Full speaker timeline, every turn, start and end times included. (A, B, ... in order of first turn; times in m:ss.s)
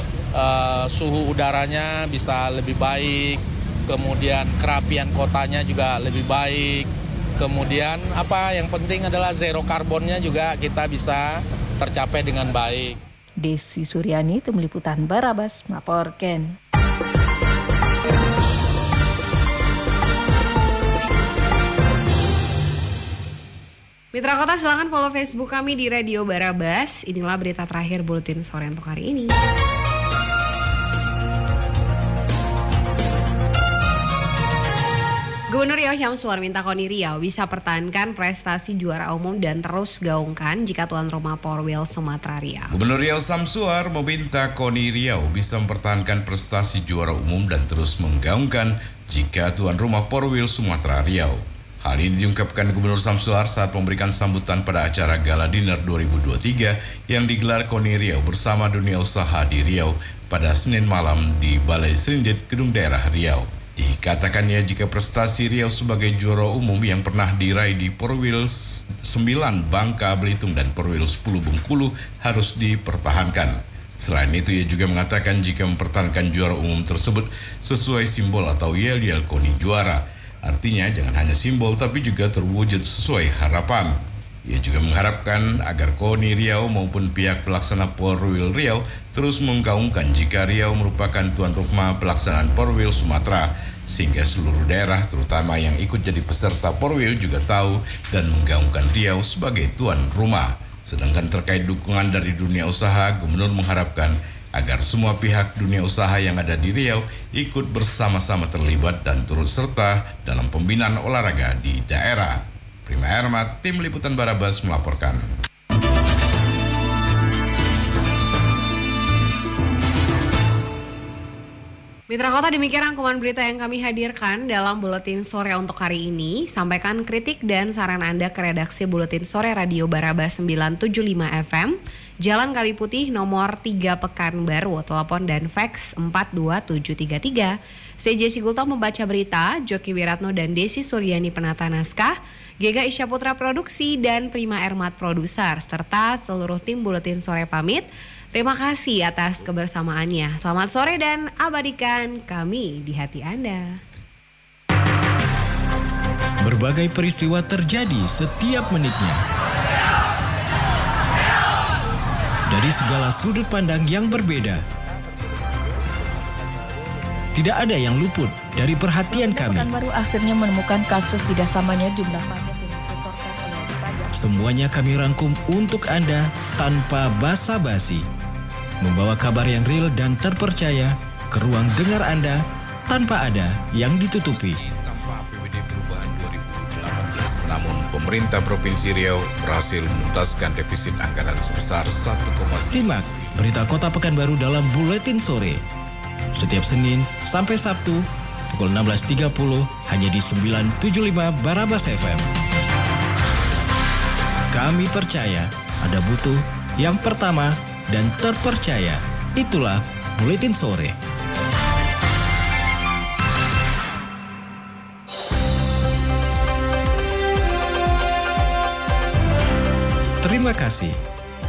0:00.3-0:13.0 A
0:13.4-0:16.5 B
0:24.1-0:29.3 C
0:35.5-0:42.7 C
0:42.7-1:24.0 D
1:24.5-1:55.2 D
2:02.1-2:33.8 C
2:36.4-2:39.2 E
2:42.5-2:44.6 E
2:47.3-2:49.7 E
2:49.1-2:54.1 B
2:54.2-2:58.0 E
2:58.8-3:04.6 E
3:04.2-3:13.6 D
3:12.7-3:15.6 E
3:16.3-3:22.3 E
3:24.5-3:30.9 E
3:40.2-3:41.0 E